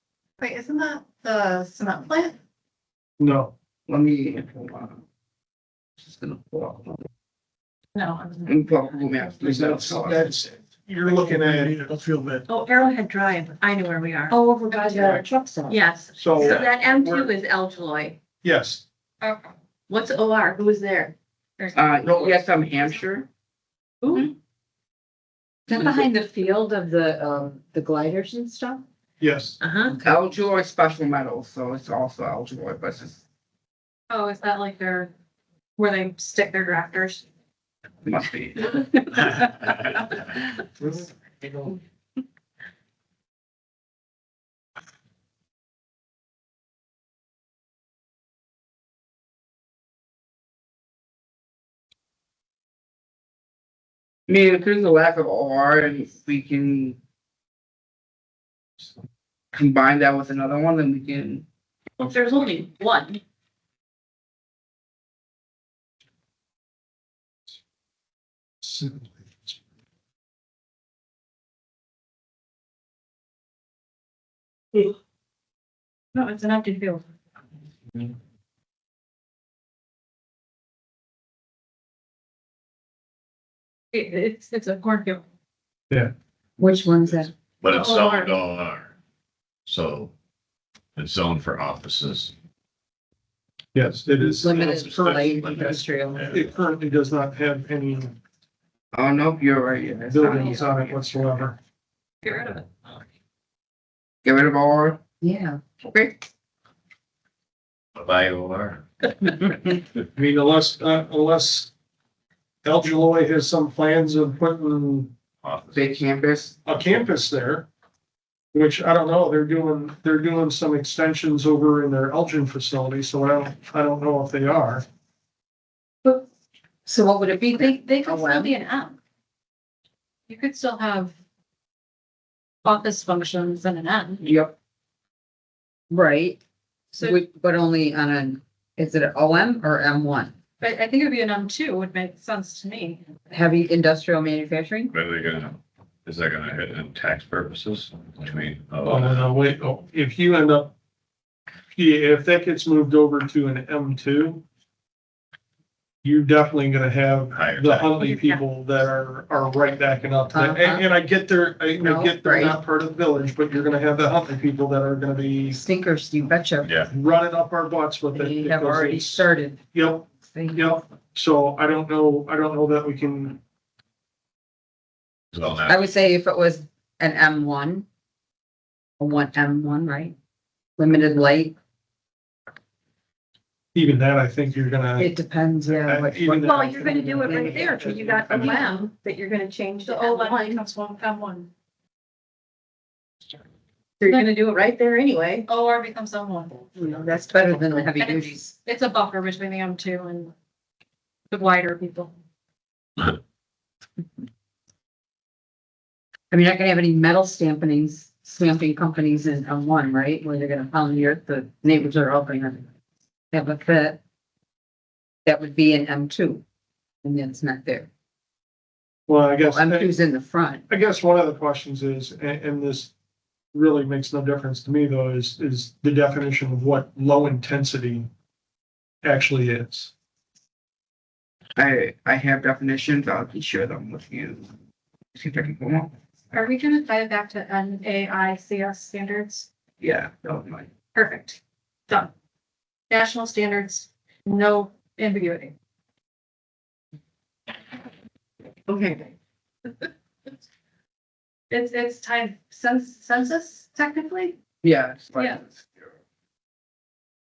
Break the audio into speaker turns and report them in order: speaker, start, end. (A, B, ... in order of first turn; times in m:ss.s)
0:00.4-0:02.4 A
0:03.2-0:03.5 B
0:03.9-0:05.0 C
0:06.0-0:07.0 C
0:07.9-0:08.8 A
0:08.4-0:10.4 C
0:09.5-0:12.4 B
0:12.5-0:14.3 D
0:14.3-0:15.7 A
0:14.3-0:15.8 E
0:15.7-0:18.2 D
0:16.1-0:17.3 B
0:18.4-0:18.8 B
0:19.2-0:19.5 A
0:19.9-0:21.1 D
0:21.6-0:22.3 A
0:21.7-0:23.3 C
0:24.0-0:24.3 D
0:25.7-0:28.8 E
0:29.2-0:29.6 B
0:29.6-0:29.9 D
0:29.9-0:30.3 E
0:30.0-0:33.2 C
0:34.1-0:35.1 A
0:35.8-0:37.2 A
0:38.0-0:39.2 C
0:40.8-0:41.7 B
0:54.3-0:57.0 C
0:59.5-1:01.4 C
1:02.0-1:03.2 D
1:08.6-1:09.5 B
1:16.1-1:17.0 A
1:23.9-1:25.2 A
1:26.6-1:27.3 E
1:27.6-1:28.9 F
1:27.7-1:28.3 A
1:29.6-1:30.1 F
1:31.0-1:32.3 F
1:33.7-1:38.2 B
1:34.2-1:36.5 F
1:34.4-1:36.3 E
1:38.9-1:41.2 C
1:40.1-1:41.6 B
1:42.2-1:42.6 A
1:44.2-1:45.0 C
1:45.2-1:45.6 E
1:45.8-1:46.2 C
1:47.9-1:48.8 F
1:50.1-1:51.7 B
1:52.6-1:55.2 B
1:55.4-1:56.0 F
1:55.7-1:56.6 C
1:56.6-1:57.7 B
1:58.5-2:04.8 B
2:06.8-2:08.5 E
2:07.6-2:09.0 A
2:10.3-2:11.1 A
2:12.6-2:14.2 A
2:14.2-2:14.5 C
2:15.9-2:16.4 E
2:16.9-2:20.3 E
2:20.6-2:23.1 A
2:23.3-2:24.9 E
2:24.9-2:29.3 F
2:28.8-2:30.7 B
2:31.7-2:34.4 B
2:36.0-2:45.6 B
2:37.3-2:38.0 F
2:38.0-2:38.4 A
2:40.3-2:40.9 E
2:41.8-2:42.6 E
2:45.5-2:46.8 E
2:46.6-2:46.9 F
2:46.9-2:53.4 B
2:48.1-2:49.6 E
2:50.3-2:50.7 E
2:55.3-2:55.9 F
2:55.6-2:57.8 E
2:59.0-3:00.2 E
3:00.8-3:01.6 E
3:03.7-3:05.1 B
3:05.0-3:08.1 E
3:05.7-3:08.5 B
3:06.4-3:10.6 D
3:07.2-3:09.0 A
3:09.8-3:11.5 A
3:14.0-3:15.4 D
3:14.0-3:14.3 A
3:15.4-3:16.6 A
3:16.7-3:18.5 E
3:17.9-3:20.3 A
3:21.3-3:22.1 A
3:26.3-3:32.7 E
3:33.3-3:34.0 E
3:35.2-3:36.4 E
3:37.0-3:37.9 E
3:39.1-3:40.0 B
3:39.4-3:40.6 E
3:40.7-3:42.9 B
3:43.5-3:48.1 B
3:49.0-3:49.9 B
3:51.6-3:54.4 C
3:55.1-3:55.9 C
3:56.3-3:59.5 A
3:59.8-4:00.7 C
4:00.9-4:02.1 A
4:02.9-4:05.5 A
4:08.7-4:09.1 C
4:11.5-4:14.4 A
4:14.6-4:15.9 C